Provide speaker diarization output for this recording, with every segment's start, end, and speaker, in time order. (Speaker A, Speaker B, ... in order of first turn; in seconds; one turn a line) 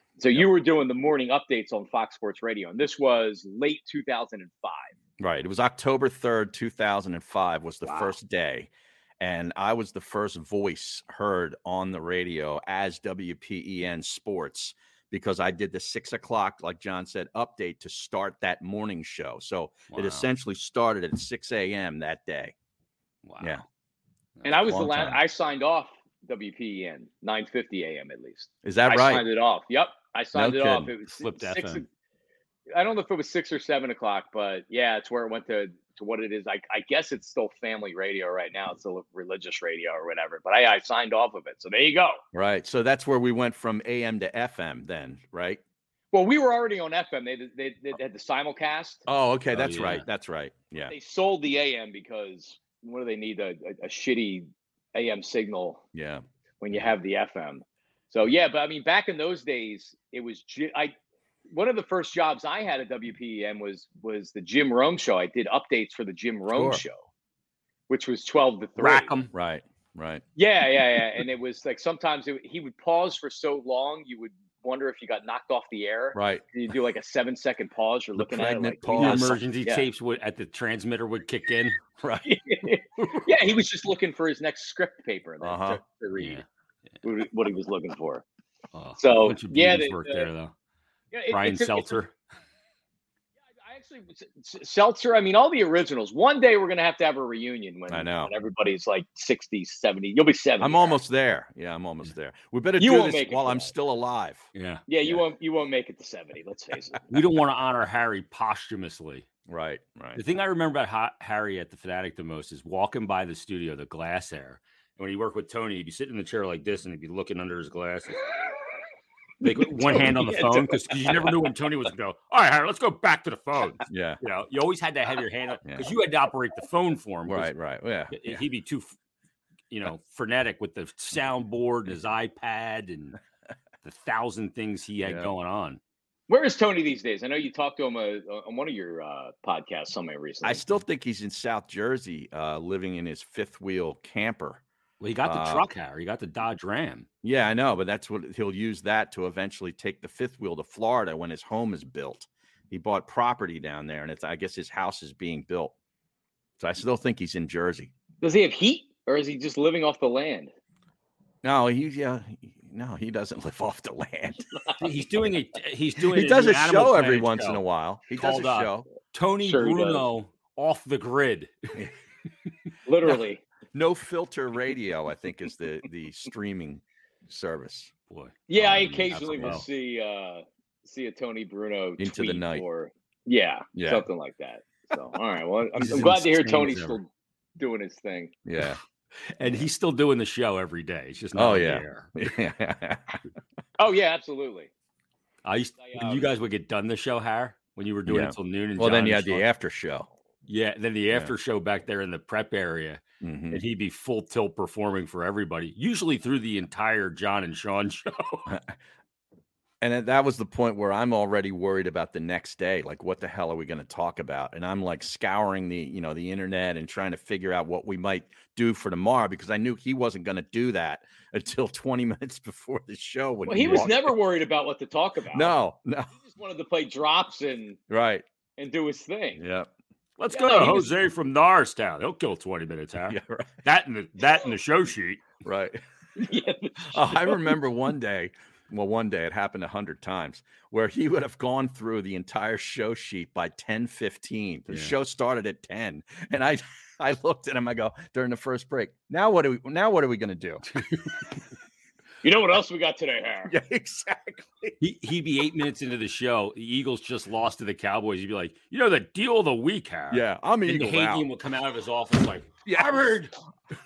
Speaker A: 0.2-4.9
Speaker B: 5.2-22.6
Speaker A: 7.9-8.1
Speaker C: 19.9-20.3
Speaker C: 23.2-23.6
Speaker A: 24.4-31.8
Speaker B: 24.6-25.2
Speaker B: 28.6-29.2
Speaker B: 30.3-30.9
Speaker C: 31.2-31.9
Speaker A: 32.7-42.2
Speaker B: 42.3-45.6
Speaker A: 46.1-49.0
Speaker B: 49.1-50.9
Speaker C: 49.5-50.0
Speaker A: 50.9-55.8
Speaker B: 55.9-56.2
Speaker A: 56.6-60.9
Speaker A: 61.5-67.0
Speaker B: 66.5-66.8
Speaker A: 67.9-69.1
Speaker C: 68.8-69.3
Speaker B: 69.3-70.2
Speaker A: 70.4-79.8
Speaker B: 76.1-76.5
Speaker B: 78.2-79.4
Speaker C: 79.0-81.8
Speaker B: 82.0-82.3
Speaker A: 82.2-86.4
Speaker B: 85.4-85.8
Speaker C: 86.2-86.4
Speaker A: 87.0-88.3
Speaker C: 88.7-90.5
Speaker A: 89.0-90.3
Speaker A: 91.1-92.0
Speaker C: 91.3-92.1
Speaker A: 93.6-101.0
Speaker B: 97.9-98.3
Speaker B: 100.6-104.5
Speaker A: 102.8-103.7
Speaker C: 104.5-104.8
Speaker A: 104.9-107.1
Speaker C: 107.1-109.3
Speaker B: 109.5-110.2
Speaker C: 110.2-118.2
Speaker C: 119.4-127.5
Speaker A: 119.5-121.3
Speaker B: 123.9-124.2
Speaker B: 125.6-125.9
Speaker B: 127.3-128.4
Speaker C: 128.1-128.9
Speaker C: 129.7-133.2
Speaker C: 133.8-135.8
Speaker B: 135.0-135.3
Speaker A: 136.3-140.6
Speaker B: 140.4-144.6
Speaker C: 145.0-147.1
Speaker B: 145.2-145.6
Speaker B: 147.2-155.7
Speaker B: 156.6-157.9
Speaker A: 158.2-160.5
Speaker B: 161.4-164.5
Speaker C: 164.8-171.8
Speaker B: 166.0-168.9
Speaker A: 169.4-170.0
Speaker A: 172.9-173.4
Speaker B: 173.7-177.9
Speaker C: 178.1-179.6
Speaker A: 178.5-188.3
Speaker B: 182.0-182.6
Speaker B: 183.8-184.0
Speaker C: 185.8-187.0
Speaker B: 188.4-188.8
Speaker C: 189.4-192.1
Speaker B: 189.4-189.7
Speaker B: 191.3-193.2
Speaker A: 193.8-194.7
Speaker C: 195.4-199.4
Speaker A: 195.8-196.3
Speaker B: 198.1-200.1
Speaker C: 200.5-208.5
Speaker B: 203.2-203.6
Speaker B: 208.5-208.8
Speaker B: 209.8-224.1
Speaker A: 223.5-225.6
Speaker B: 225.3-226.1
Speaker A: 226.1-227.8
Speaker B: 227.9-228.2
Speaker A: 228.6-229.4
Speaker B: 229.4-229.7
Speaker C: 230.2-235.3
Speaker A: 230.3-230.9
Speaker B: 233.1-233.5
Speaker B: 235.4-235.8
Speaker A: 236.2-237.6
Speaker B: 236.9-250.7
Speaker C: 250.8-251.1
Speaker A: 252.2-253.6
Speaker B: 253.5-254.7
Speaker C: 254.8-263.3
Speaker B: 260.1-261.3
Speaker B: 262.7-263.1